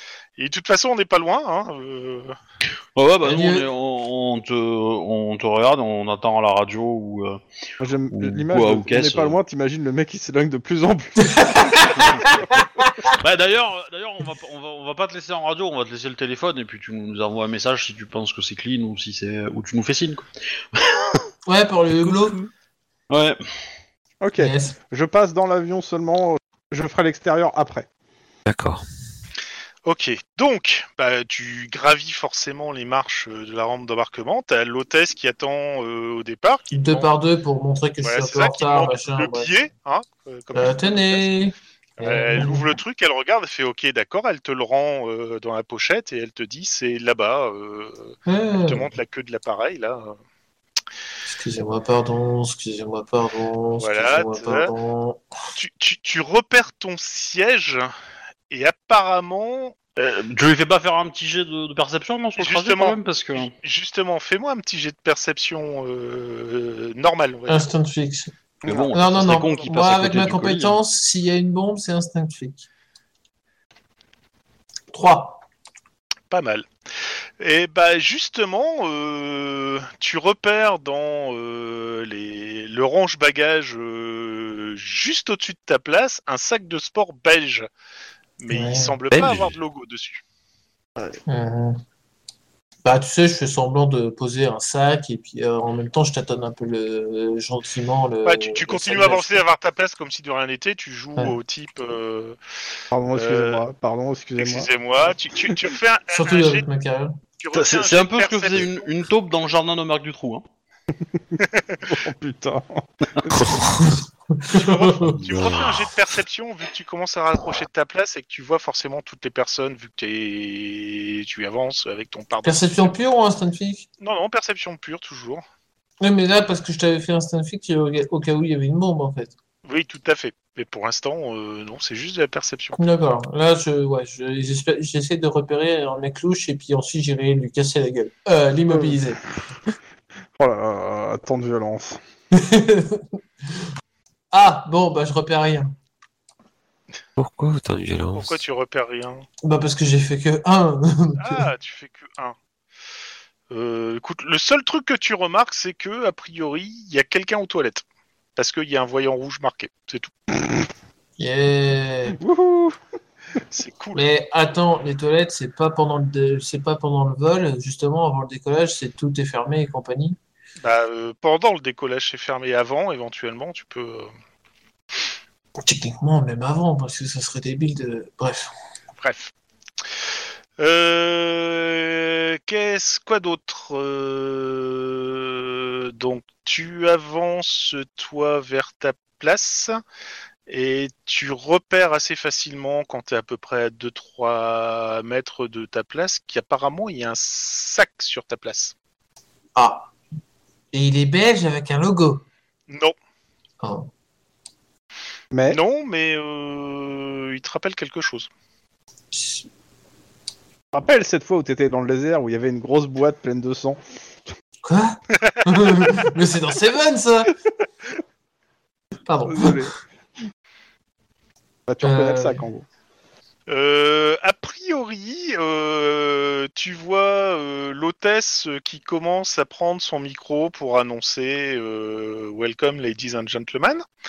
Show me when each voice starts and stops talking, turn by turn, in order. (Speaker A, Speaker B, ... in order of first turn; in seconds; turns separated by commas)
Speaker A: 0.4-2.3, Speaker B: 3.0-7.4, Speaker C: 3.2-3.7, Speaker D: 7.8-11.8, Speaker B: 8.1-9.4, Speaker C: 11.2-13.1, Speaker B: 13.2-21.2, Speaker C: 21.4-22.4, Speaker B: 23.1-23.4, Speaker D: 24.2-27.9, Speaker C: 24.4-24.8, Speaker E: 28.5-28.8, Speaker A: 29.8-37.1, Speaker C: 36.7-39.5, Speaker A: 38.0-41.2, Speaker C: 40.5-42.7, Speaker A: 42.0-50.1, Speaker C: 48.2-48.9, Speaker C: 51.2-55.2, Speaker A: 53.8-54.7, Speaker A: 55.5-57.9, Speaker A: 58.5-59.8, Speaker B: 60.0-63.5, Speaker A: 62.4-67.7, Speaker C: 67.5-72.6, Speaker B: 68.6-70.8, Speaker C: 74.9-75.4, Speaker A: 76.3-76.7, Speaker A: 77.4-87.7, Speaker A: 88.4-90.2, Speaker C: 88.5-89.0, Speaker E: 89.1-89.5, Speaker C: 91.3-91.8, Speaker C: 92.8-99.4, Speaker A: 98.2-102.4, Speaker D: 102.9-104.7, Speaker A: 103.1-103.6, Speaker A: 104.4-106.7, Speaker C: 106.1-107.2, Speaker A: 107.4-108.9, Speaker B: 107.5-110.4, Speaker D: 111.9-113.6, Speaker E: 113.3-113.9, Speaker C: 113.8-115.2, Speaker A: 114.5-122.9, Speaker E: 115.2-115.9, Speaker C: 122.4-123.9, Speaker A: 124.0-125.4, Speaker C: 126.0-129.3, Speaker A: 129.7-132.8, Speaker C: 132.8-139.2, Speaker D: 138.7-139.0, Speaker D: 140.4-142.0, Speaker C: 142.3-143.7, Speaker C: 144.3-145.7, Speaker E: 147.2-148.4, Speaker A: 148.1-149.2, Speaker C: 149.4-151.4, Speaker A: 151.2-152.3, Speaker A: 153.5-157.8, Speaker A: 158.3-160.1, Speaker C: 161.2-162.2, Speaker D: 162.2-162.8, Speaker A: 163.5-164.0, Speaker C: 163.9-170.2, Speaker A: 170.6-174.1, Speaker C: 175.6-178.5, Speaker A: 179.0-179.3, Speaker A: 180.6-189.8, Speaker A: 190.5-198.7, Speaker C: 199.6-199.9, Speaker C: 200.7-202.2, Speaker A: 202.7-202.9, Speaker C: 203.6-203.9, Speaker D: 205.3-205.6, Speaker A: 205.5-208.3, Speaker C: 209.1-209.5, Speaker D: 210.7-213.8, Speaker C: 214.6-217.3, Speaker A: 215.2-216.1, Speaker C: 219.1-219.7, Speaker D: 219.3-219.7, Speaker D: 221.7-222.6, Speaker C: 221.8-222.4, Speaker A: 223.5-233.8